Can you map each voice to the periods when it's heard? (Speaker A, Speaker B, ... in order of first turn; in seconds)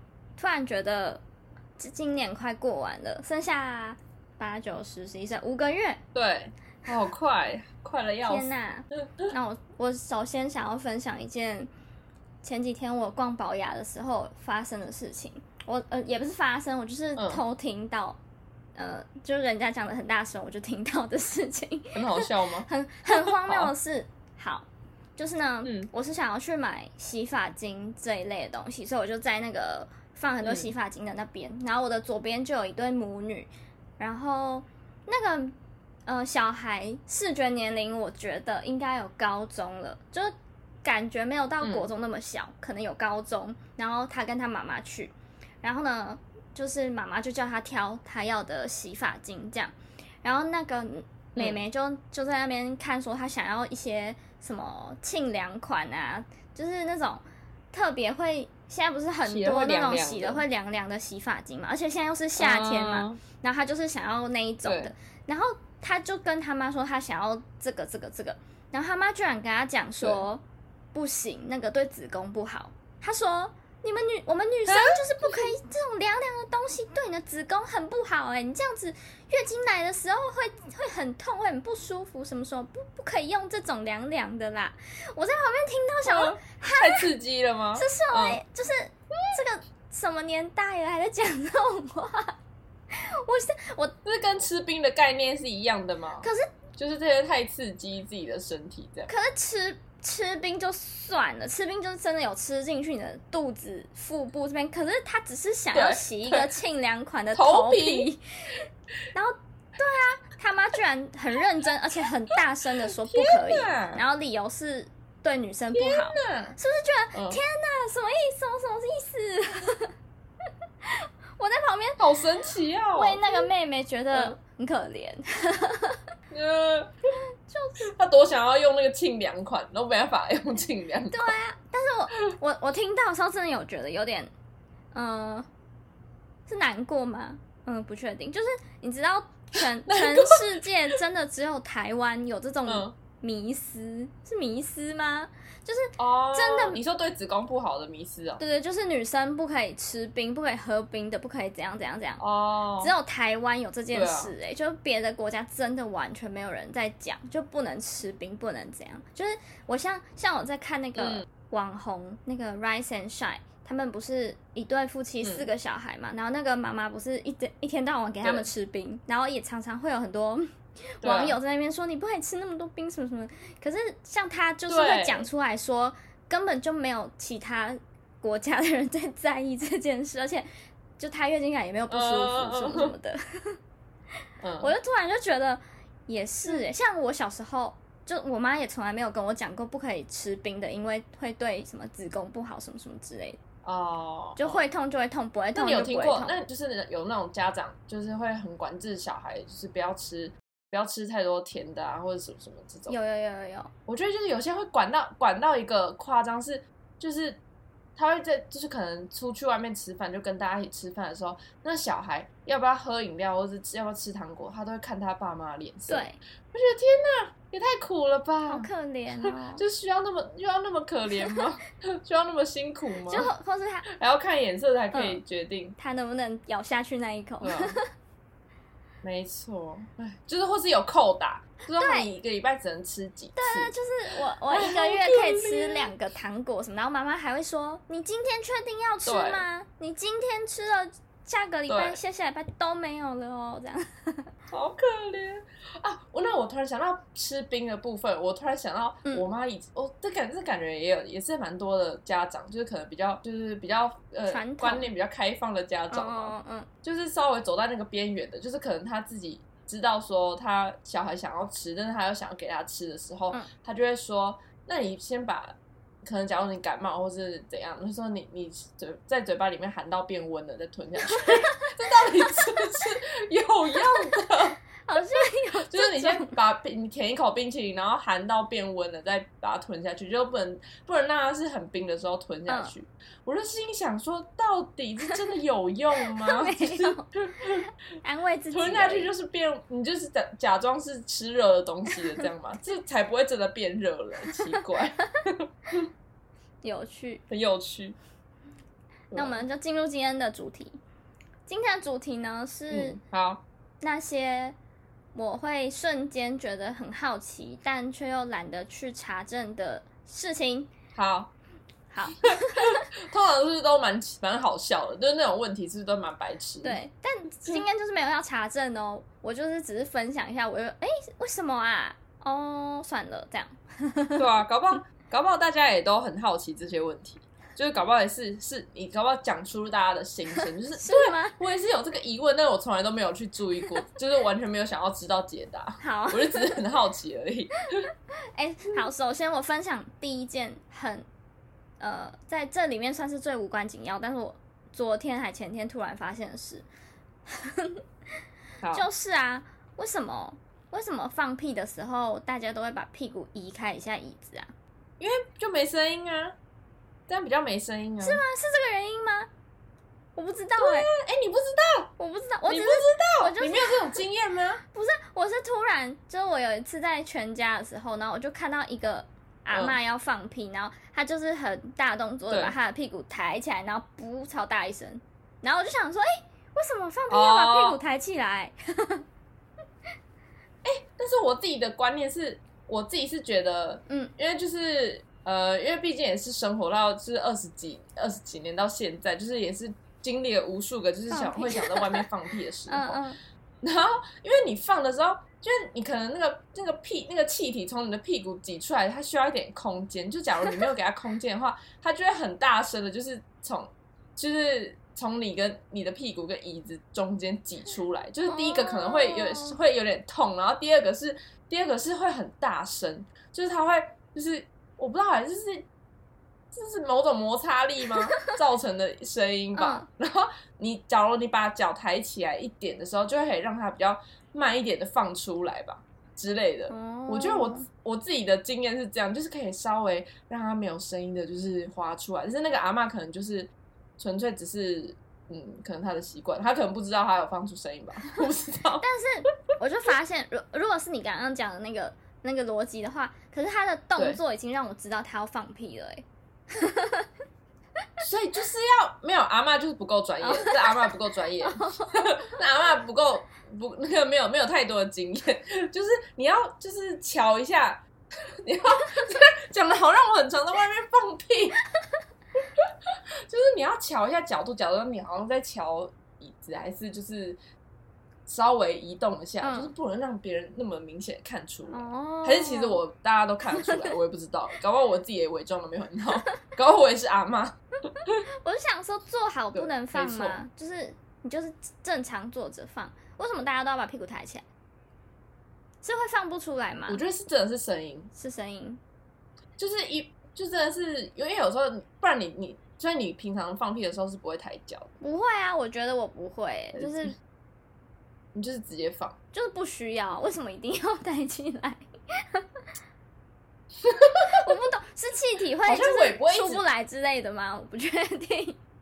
Speaker A: 0.4-1.2, 1.8-6.0, 8.2-11.7, 12.4-18.2, 18.8-35.5, 36.1-70.4, 70.9-87.1, 87.8-92.3, 92.9-94.0, 96.2-96.5, 99.1-108.6, 109.1-119.9, 120.8-122.0, 122.9-126.0, 127.5-127.8, 131.1-134.3, 134.9-135.5, 136.5-146.8, 148.4-152.2, 152.8-170.4, 171.0-180.5, 181.0-183.6, 184.6-193.4, 194.4-196.3, 202.9-203.7, 215.9-216.2, 218.5-219.6, 223.1-223.9, 224.9-225.2, 225.8-227.9, 231.8-232.1, 233.4-244.3, 254.3-254.9, 255.9-256.7, 271.0-271.7, 274.9-276.4, 282.5-282.8, 286.1-287.1, 288.0-289.1, 296.6-297.2, 299.1-300.8, 301.5-303.0, 303.8-304.6, 305.1-310.7, 311.9-312.8, 316.6-324.2, 330.8-331.4, 335.8-336.6, 338.3-341.1, 341.8-346.7, 347.3-347.8, 348.7-354.5, 358.0-359.3, 360.2-360.9, 362.0-364.0, 364.7-379.0, 391.1-392.1, 392.7-393.2, 408.3-409.6, 419.6-419.9, 426.7-427.7, 438.8-447.1, 450.2-452.2, 469.4-469.7, 471.7-472.8, 473.5-473.9, 478.4-484.4, 485.8-487.0, 488.1-488.8, 495.0-497.1, 499.3-502.4, 504.2-508.6
Speaker B: 6.1-8.5, 17.2-17.4, 21.9-23.7, 25.6-25.9, 30.4-30.7, 41.6-41.9, 51.4-51.6, 59.2-60.4, 62.4-63.2, 64.6-64.9, 74.7-75.5, 86.0-88.4, 94.0-99.1, 105.7-106.4, 107.3-108.1, 112.8-114.0, 115.7-116.6, 117.1-117.4, 122.0-123.5, 124.1-124.4, 126.3-126.9, 127.8-131.4, 139.9-140.4, 142.7-142.9, 146.0-148.4, 152.2-152.9, 153.9-154.3, 161.0-161.2, 165.2-165.5, 168.2-168.5, 171.0-171.4, 174.7-175.3, 181.9-182.9, 184.4-184.7, 193.7-194.6, 195.5-203.0, 203.9-207.4, 207.9-223.3, 223.9-225.8, 227.4-227.8, 229.0-233.8, 234.5-235.9, 239.0-239.4, 241.7-242.0, 244.5-287.6, 288.5-295.9, 297.3-298.0, 299.1-299.4, 302.7-303.4, 310.9-311.3, 312.3-316.8, 324.2-337.9, 355.0-356.4, 357.1-358.2, 360.6-361.9, 362.5-364.6, 369.5-369.8, 372.3-372.6, 377.1-377.8, 380.6-393.0, 393.6-415.7, 416.5-438.9, 448.0-457.9, 458.4-461.6, 463.3-467.4, 468.3-478.1, 479.5-480.4, 486.9-488.1, 489.6-494.9, 496.8-497.1, 498.3-499.2, 503.8-504.4, 505.7-506.6